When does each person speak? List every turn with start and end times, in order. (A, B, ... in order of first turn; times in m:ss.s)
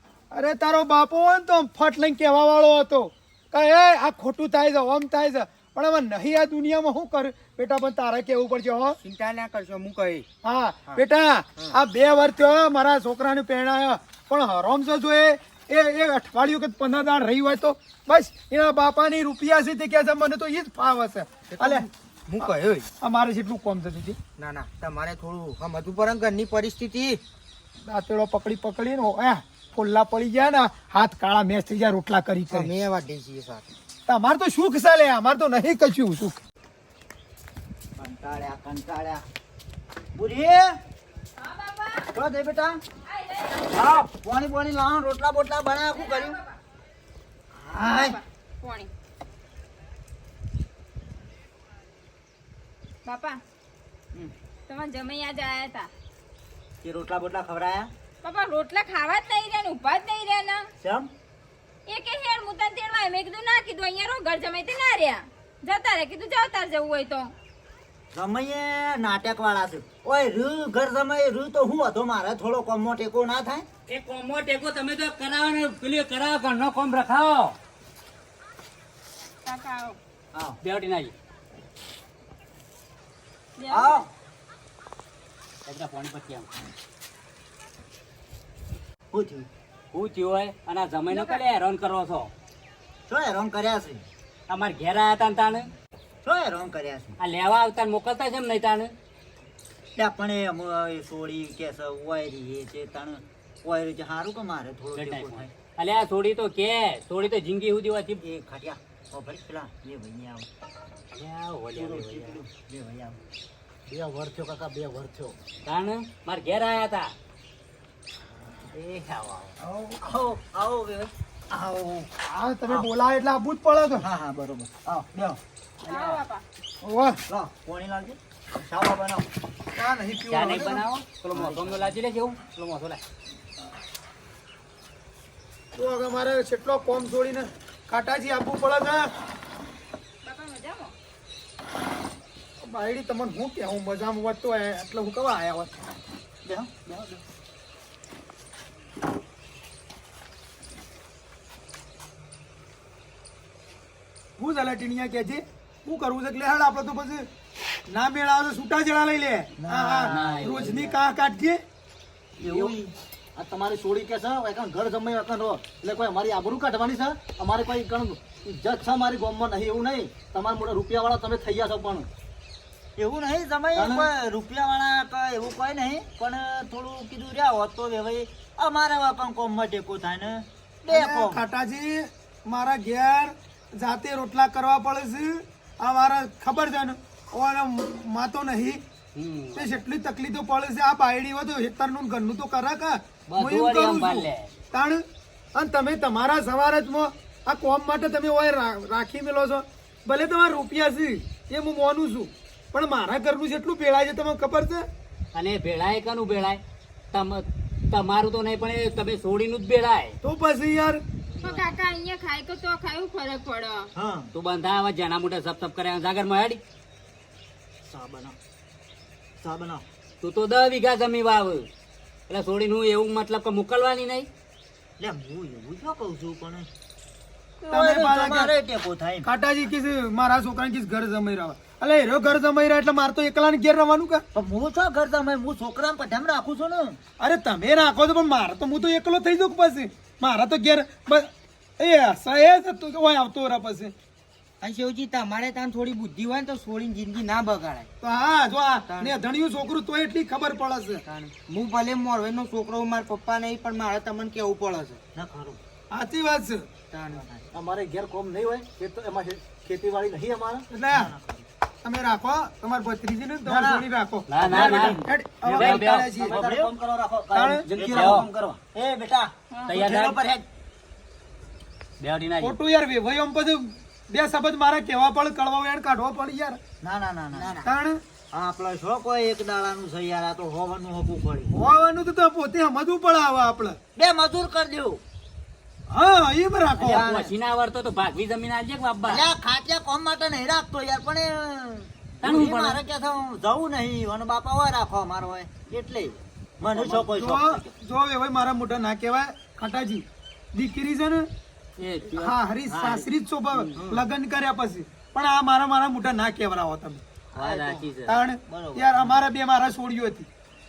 0:00.3-0:09.0 A
0:09.0-0:10.2 B
0:10.5-0:21.8 A
0:21.5-0:22.9 B
0:23.0-0:24.2 A
0:24.4-0:27.2 B
0:27.9-0:32.7 A
0:32.5-0:33.6 B
0:34.1-0:36.3 A
0:38.0-0:39.2 C
0:40.1-0:40.7 C
0:41.4-0:42.1 D
0:42.1-0:42.8 C
0:43.1-0:43.9 D
0:43.7-0:46.4 C
0:45.9-0:46.6 D
0:47.5-0:48.2 C
0:47.8-0:48.9 D
0:53.0-0:53.4 D
0:54.7-0:55.9 D
0:56.8-0:57.9 C
0:58.2-1:00.7 D
1:00.8-1:01.1 C
1:01.9-1:07.3 D
1:08.1-1:13.6 C
1:13.9-1:17.6 E
1:19.4-1:20.0 D
1:20.6-1:21.1 E
1:23.6-1:24.0 D
1:23.7-1:24.1 C
1:25.6-1:26.5 E
1:29.1-1:29.5 C
1:29.9-1:32.3 E
1:31.1-1:31.4 D
1:33.1-1:34.1 C
1:34.5-1:35.7 E
1:36.2-1:37.2 C
1:37.2-1:38.9 E
1:40.0-1:45.5 C
1:44.9-1:48.2 E
1:48.2-1:50.5 C
1:51.1-1:52.4 E
1:51.8-1:52.4 F
1:52.4-1:53.2 C
1:53.9-1:55.4 F
1:55.6-1:57.1 E
1:58.7-1:59.5 E
2:00.0-2:02.1 C
2:02.2-2:04.0 A
2:03.9-2:05.4 C
2:05.9-2:06.2 E
2:05.9-2:06.4 D
2:06.8-2:07.1 A
2:07.3-2:09.2 C
2:09.8-2:10.8 A
2:10.2-2:13.0 E
2:11.3-2:11.9 C
2:15.8-2:19.1 A
2:20.2-2:20.9 D
2:22.6-2:25.7 A
2:26.4-2:26.9 C
2:34.4-2:37.3 A
2:37.9-2:41.6 A
2:39.6-2:40.6 C
2:40.0-2:41.0 E
2:42.4-2:42.9 C
2:42.4-2:42.8 F
2:43.4-2:52.1 F
2:53.0-3:01.4 C
2:53.7-2:54.1 F
3:00.9-3:08.8 A
3:09.1-3:09.8 E
3:09.6-3:15.0 A
3:13.3-3:14.5 E
3:15.5-3:24.8 A
3:25.3-3:26.6 E
3:27.1-3:30.2 E
3:30.2-3:31.0 A
3:31.4-3:33.9 D
3:33.9-3:34.3 C
3:34.3-3:36.6 E
3:37.8-3:38.4 C
3:39.4-3:39.8 C
3:40.2-3:41.7 E
3:42.3-3:44.3 E
3:45.0-3:46.7 C
3:47.6-3:48.5 A
3:47.7-3:49.3 C
3:49.3-3:54.2 A
3:54.3-3:57.0 C
3:57.2-4:01.3 A
4:01.8-4:03.9 A
4:04.6-4:07.9 B
4:08.0-4:11.0 A
4:08.9-4:09.2 B
4:11.0-4:15.0 B
4:15.1-4:15.6 C
4:15.9-4:16.6 A
4:16.9-4:17.2 B
4:17.1-4:17.5 C
4:17.5-4:20.7 F
4:20.7-4:21.0 A
4:20.9-4:21.5 C
4:21.8-4:26.2 A
4:23.5-4:23.8 F
4:24.3-4:26.5 E
4:24.4-4:24.7 C
4:24.5-4:28.6 F
4:26.3-4:26.7 C
4:27.4-4:27.6 A
4:27.7-4:30.4 C
4:27.9-4:28.2 E
4:29.5-4:29.8 D
4:29.7-4:30.2 E
4:32.0-4:32.6 E
4:32.4-4:36.6 A
4:36.8-4:37.6 C
4:37.6-4:38.0 A
4:38.3-4:41.7 C
4:41.5-4:43.8 A
4:44.0-4:45.0 C
4:45.9-4:47.0 A
4:46.8-4:49.3 E
4:46.8-4:47.3 C
4:49.1-4:57.7 C
4:52.2-4:52.8 E
4:57.0-5:00.0 A
5:00.5-5:01.2 A
5:01.8-5:04.0 E
5:02.2-5:07.0 A
5:07.3-5:07.9 C
5:07.4-5:08.2 E
5:08.5-5:09.2 C
5:08.8-5:10.2 A